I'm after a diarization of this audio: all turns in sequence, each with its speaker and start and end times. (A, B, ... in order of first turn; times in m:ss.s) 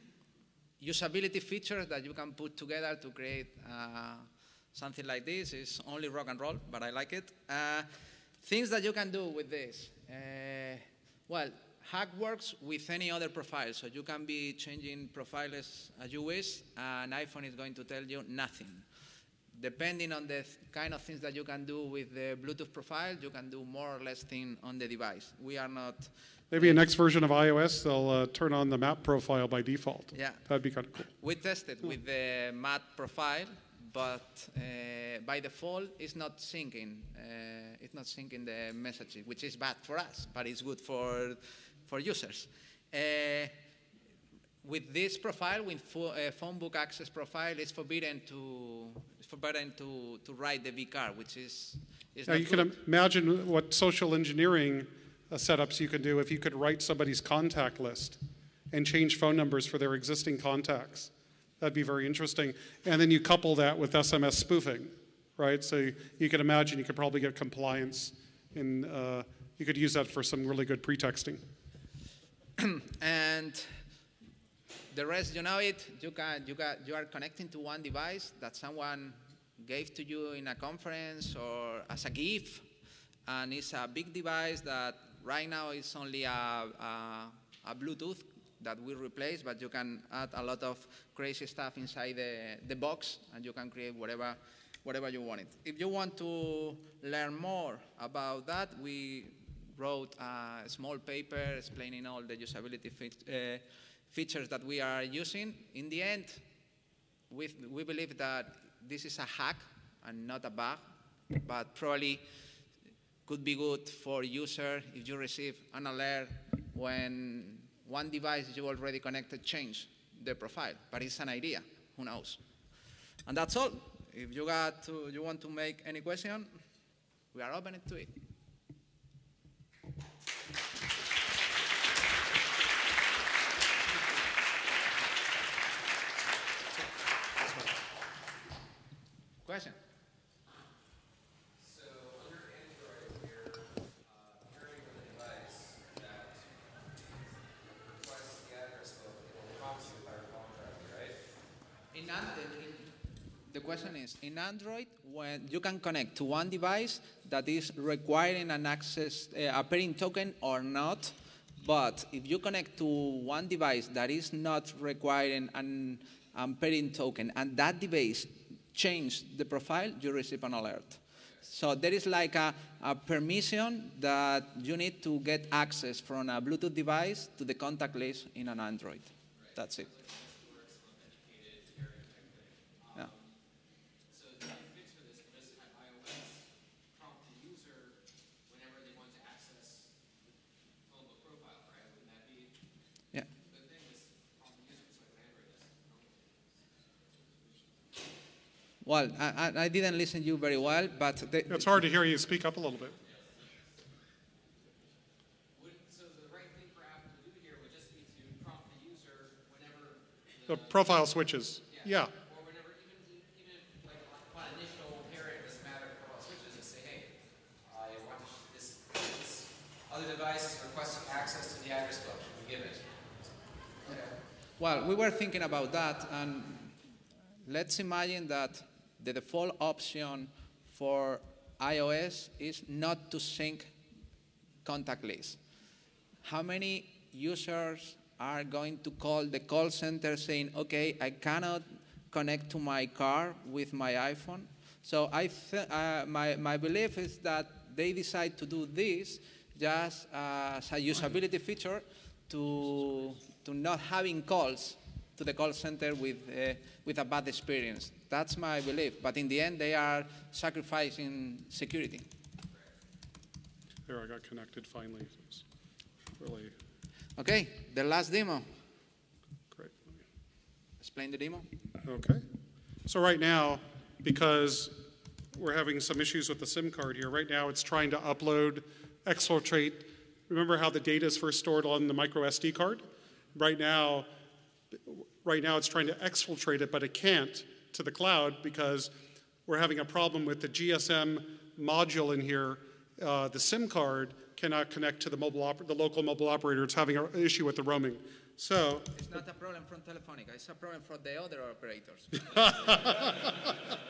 0:00.8-0:18.9 A
0:19.5-0:26.8 A
0:26.5-0:31.1 B
0:30.1-0:30.4 A
0:31.1-0:43.6 A
0:44.6-0:52.7 A
0:52.3-0:58.2 B
0:58.7-1:11.4 B
1:12.6-1:13.8 A
1:14.9-1:22.7 A
1:23.2-1:46.4 A
1:47.3-1:52.3 A
1:53.3-2:02.4 A
2:03.2-2:06.6 A
2:07.3-2:08.1 A
2:17.4-2:17.8 B
2:19.4-2:19.8 A
2:21.6-2:31.2 C
2:31.9-2:33.0 A
2:33.5-2:59.9 A
2:59.3-3:03.4 C
3:04.1-3:10.0 C
3:10.8-3:12.6 C
3:13.4-3:16.6 C
3:18.8-3:21.8 A
3:21.5-3:23.0 B
3:23.0-3:23.4 C
3:25.5-3:31.0 C
3:30.5-3:32.1 B
3:31.7-3:43.1 C
3:43.9-3:46.8 A
3:47.4-3:53.7 A
3:54.6-3:55.4 A
3:56.2-4:22.1 A
4:23.9-4:25.5 B
4:26.2-4:26.5 B
4:27.2-4:28.5 A
4:29.5-4:30.0 B
4:30.8-4:31.5 A
4:31.8-4:32.2 B
4:32.9-4:44.1 B
4:44.8-4:58.9 B
4:58.9-5:03.0 A
5:02.3-5:03.5 B